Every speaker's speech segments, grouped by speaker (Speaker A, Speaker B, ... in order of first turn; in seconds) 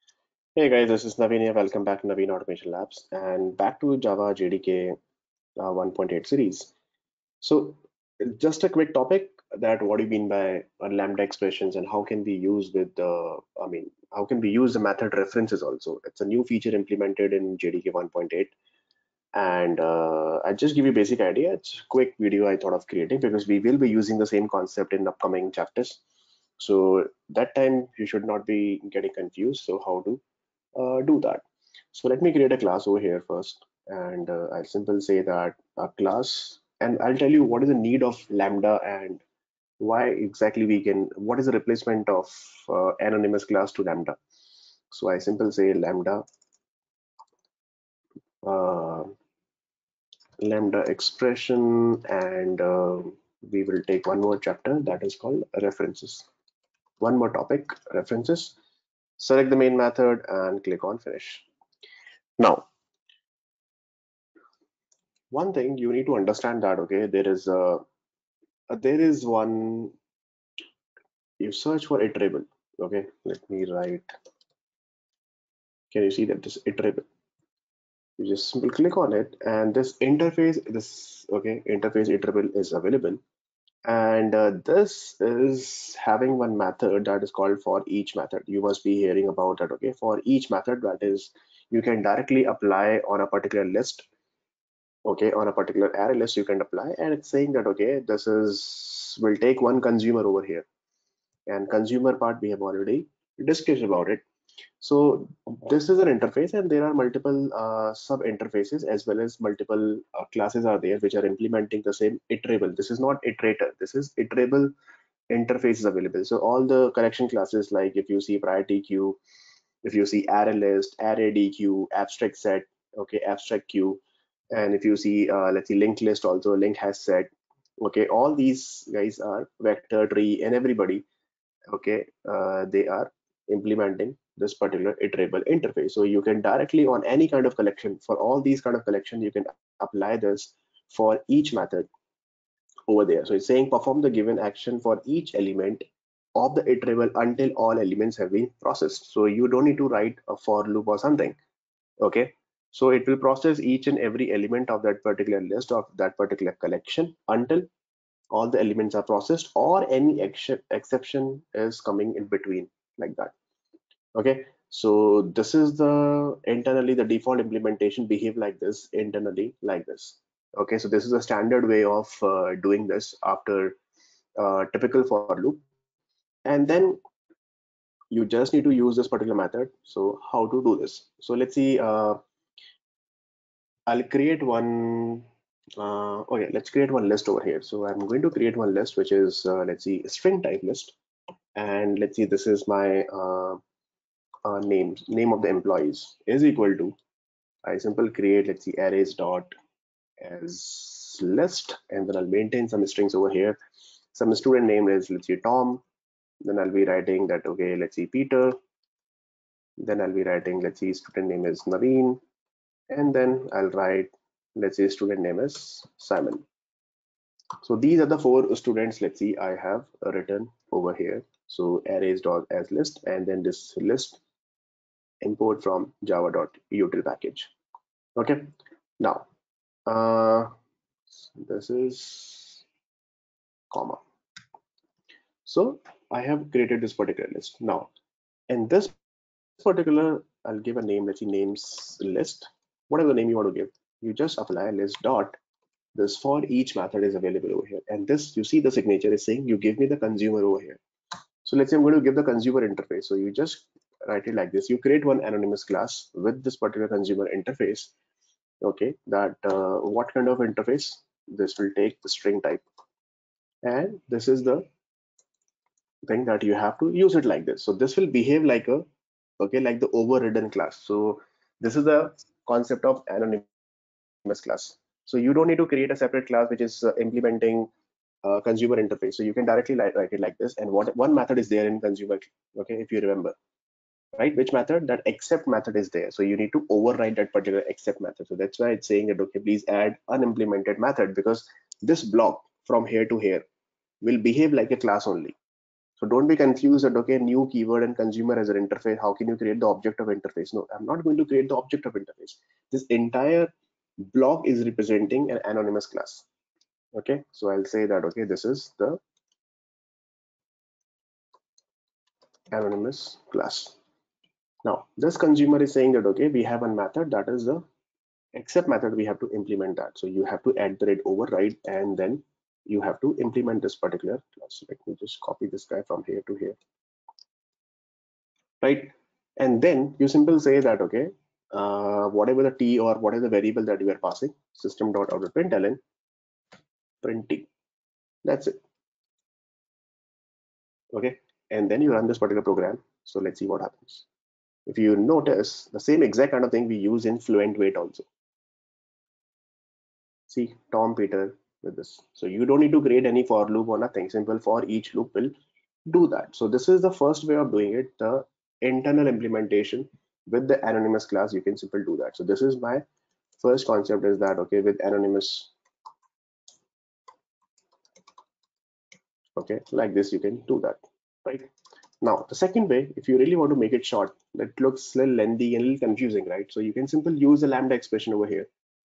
Speaker A: 0.6-5.0, 5.6-6.7, 7.4-18.6, 19.4-26.0, 26.6-30.2, 30.8-39.2, 39.8-44.2, 44.9-46.2, 48.4-49.1, 50.4-56.3, 57.0-58.6, 59.2-61.5, 62.4-62.7, 65.3-67.8, 68.7-70.0, 71.4-74.1, 75.9-77.0, 78.2-83.2, 83.8-94.1, 95.0-100.7, 101.5-104.2, 104.8-114.7, 115.3-119.2, 119.8-124.0, 124.5-131.1, 131.7-141.9, 142.9-151.4, 152.0-157.7, 158.3-163.3, 164.2-173.8, 174.4-175.6, 176.5-177.0, 178.1-182.2, 183.9-191.0, 191.6-193.6, 194.4-197.0, 197.7-199.5, 200.2-203.6, 204.1-205.8, 206.4-208.6, 209.8-212.2, 212.9-216.5, 217.6-224.2, 225.2-227.5, 228.2-229.3, 229.9-230.5, 231.1-232.6, 233.7-234.0, 235.4-237.9, 238.5-239.0, 239.6-245.4, 245.9-250.8, 251.4-257.9, 258.6-262.6, 263.6-264.7, 266.1-268.9, 269.4-273.5, 274.2-277.7, 278.2-283.4, 284.1-293.4, 294.0-295.4, 296.0-306.3, 306.9-309.0, 312.5-313.8, 314.6-317.6, 318.4-326.6, 328.6-335.8, 337.0-337.5, 338.2-338.6, 340.9-344.1, 344.7-348.1, 350.3-355.3, 355.9-362.9, 363.4-365.5, 369.4-378.5